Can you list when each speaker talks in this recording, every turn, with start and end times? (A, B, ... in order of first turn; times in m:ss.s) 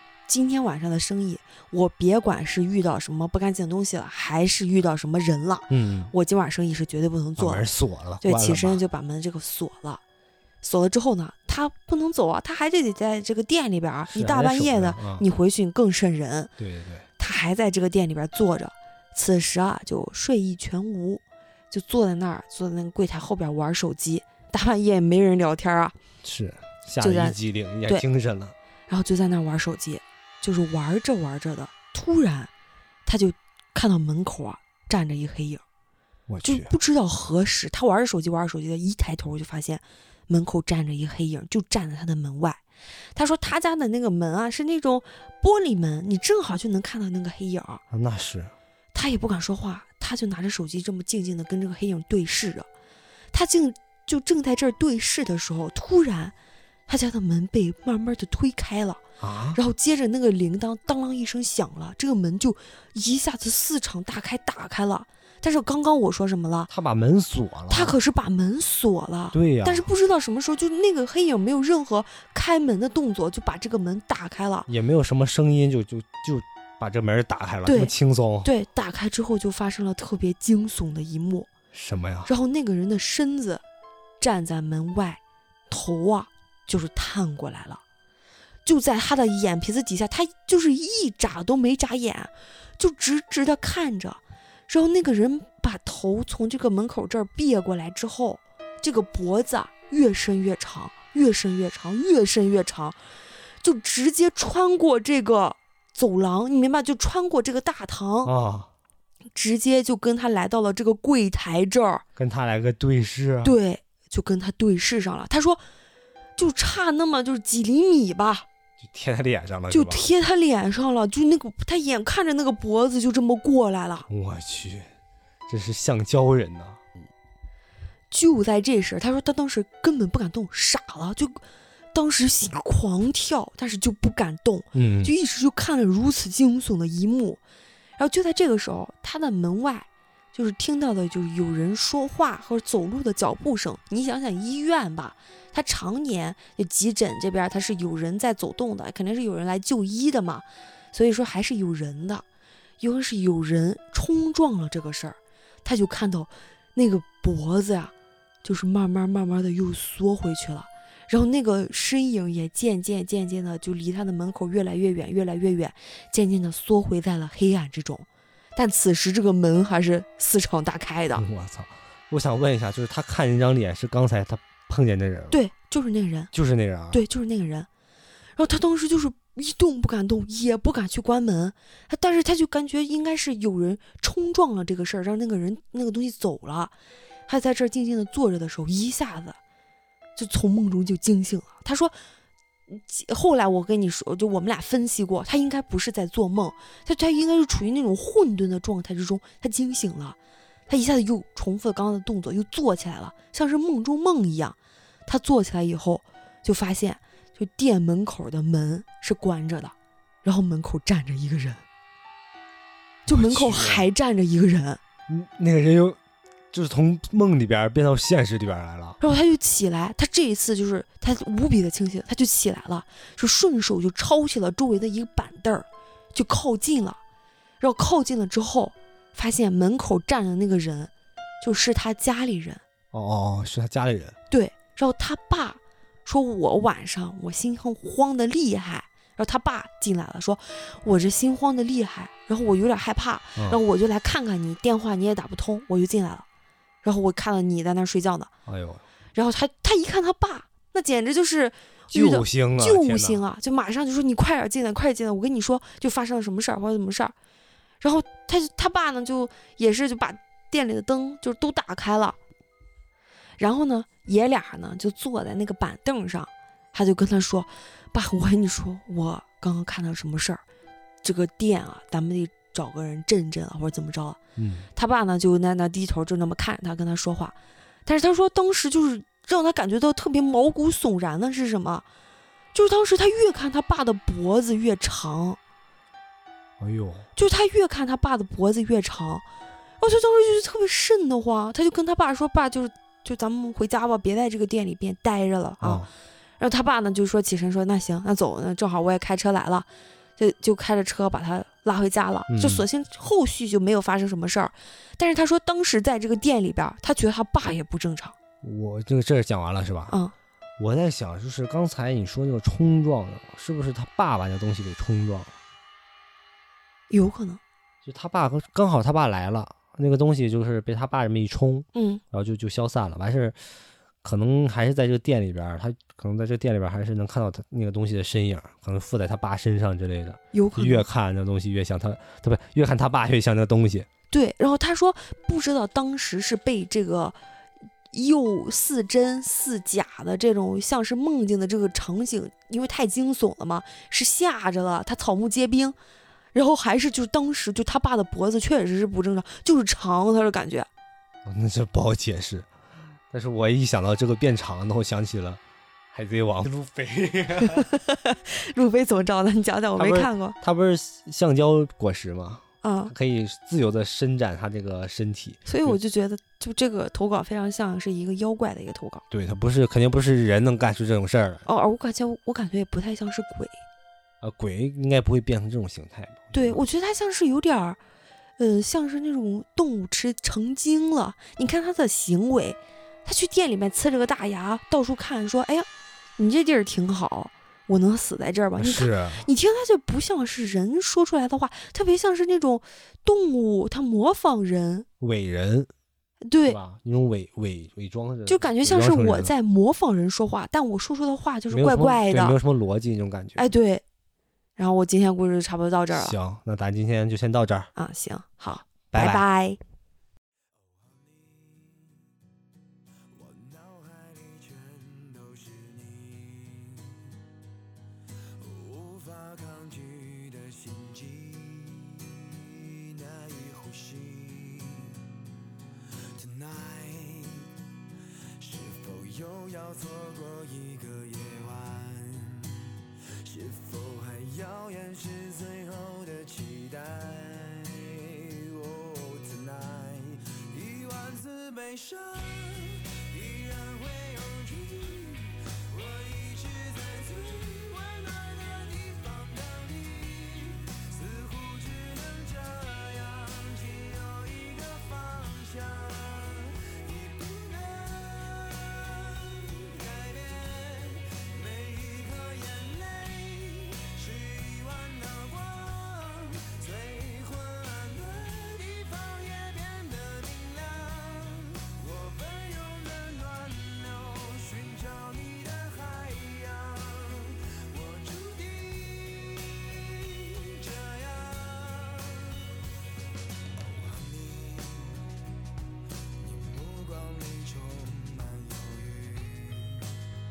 0:00.3-0:07.7 A
0:05.7-0:06.1 B
0:07.4-0:08.8 B
0:08.2-0:10.0 A
0:10.6-0:16.5 A
0:14.1-0:15.2 B
0:16.6-0:17.1 B
0:17.2-0:26.0 A
0:26.2-0:28.5 B
0:27.0-0:28.0 A
0:28.9-0:32.5 A
0:33.1-0:35.6 A
0:36.3-0:36.7 B
0:36.4-0:42.6 A
0:43.2-0:47.8 A
0:47.9-0:48.5 B
0:48.9-0:52.7 A
0:53.3-0:56.3 A
0:56.9-0:59.0 A
0:59.2-0:59.6 B
0:59.5-1:06.7 A
1:06.7-1:08.0 B
1:07.7-1:14.7 A
1:09.3-1:09.9 B
1:14.7-1:18.5 B
1:17.7-1:17.9 A
1:18.4-1:21.5 A
1:21.7-1:22.3 B
1:22.3-1:23.6 A
1:24.2-1:27.8 A
1:28.6-1:43.0 A
1:43.6-1:48.3 A
1:48.2-1:48.7 B
1:49.3-1:52.0 A
1:52.2-1:53.6 B
1:53.4-1:55.6 A
1:56.4-1:58.5 A
1:58.8-2:00.1 B
1:59.7-2:04.1 A
2:04.1-2:04.9 B
2:05.5-2:06.8 B
2:08.1-2:11.4 A
2:11.9-2:17.4 A
2:14.7-2:15.1 B
2:18.0-2:32.2 A
2:32.8-2:37.9 A
2:38.4-2:51.2 A
2:51.2-2:55.4 B
2:55.3-2:56.3 A
2:56.3-2:57.0 B
2:56.9-2:57.7 A
2:58.4-3:06.7 A
3:07.3-3:09.4 A
3:10.2-3:12.0 A
3:12.7-3:20.2 A
3:20.7-3:31.6 A
3:33.1-3:33.9 B
3:33.1-3:34.8 A
3:35.1-3:36.0 B
3:36.5-3:39.0 B
3:39.0-3:47.0 A
3:47.6-3:52.6 A
3:52.9-3:54.2 B
3:54.3-4:06.3 A
4:06.8-4:08.3 A
4:08.5-4:08.8 B
4:09.2-4:17.2 A
4:11.9-4:13.2 B
4:17.8-4:22.2 A
4:23.4-4:30.4 A
4:31.0-4:34.2 A
4:34.4-4:34.7 B
4:34.8-4:41.9 A
4:42.5-4:45.4 A
4:46.6-4:47.1 B
4:47.2-4:49.2 A
4:49.8-4:55.8 A
4:55.6-4:55.9 B
4:56.4-5:08.2 A
5:02.3-5:02.7 B
5:08.4-5:10.0 B
5:10.6-5:15.4 B
5:16.9-5:17.4 A
5:17.8-5:23.4 B
5:21.7-5:22.0 A
5:24.0-5:33.9 B
5:30.3-5:30.9 A
5:34.1-5:37.2 A
5:37.9-5:45.8 A
5:46.3-5:50.7 A
5:51.3-5:52.5 B
5:53.1-5:55.4 B
5:55.9-5:57.7 B
5:57.4-6:00.4 A
5:59.8-6:05.8 B
6:02.6-6:02.9 A
6:05.5-6:09.0 A
6:09.1-6:11.4 B
6:11.5-6:13.6 A
6:14.2-6:16.6 B
6:16.3-6:17.8 A
6:18.4-6:34.9 A
6:28.6-6:29.3 B
6:35.0-6:35.7 B
6:36.3-6:36.6 A
6:36.5-6:39.3 B
6:38.3-6:42.4 A
6:41.5-6:43.4 B
6:43.4-6:43.8 A
6:44.6-6:46.2 A
6:45.9-6:47.7 B
6:47.8-6:49.6 A
6:48.9-6:49.2 B
6:50.6-6:52.1 C
6:53.1-6:57.1 C
6:58.4-7:05.2 C
7:06.2-7:07.5 C
7:08.4-8:02.6 C
8:03.6-8:05.1 C
8:06.2-8:10.0 C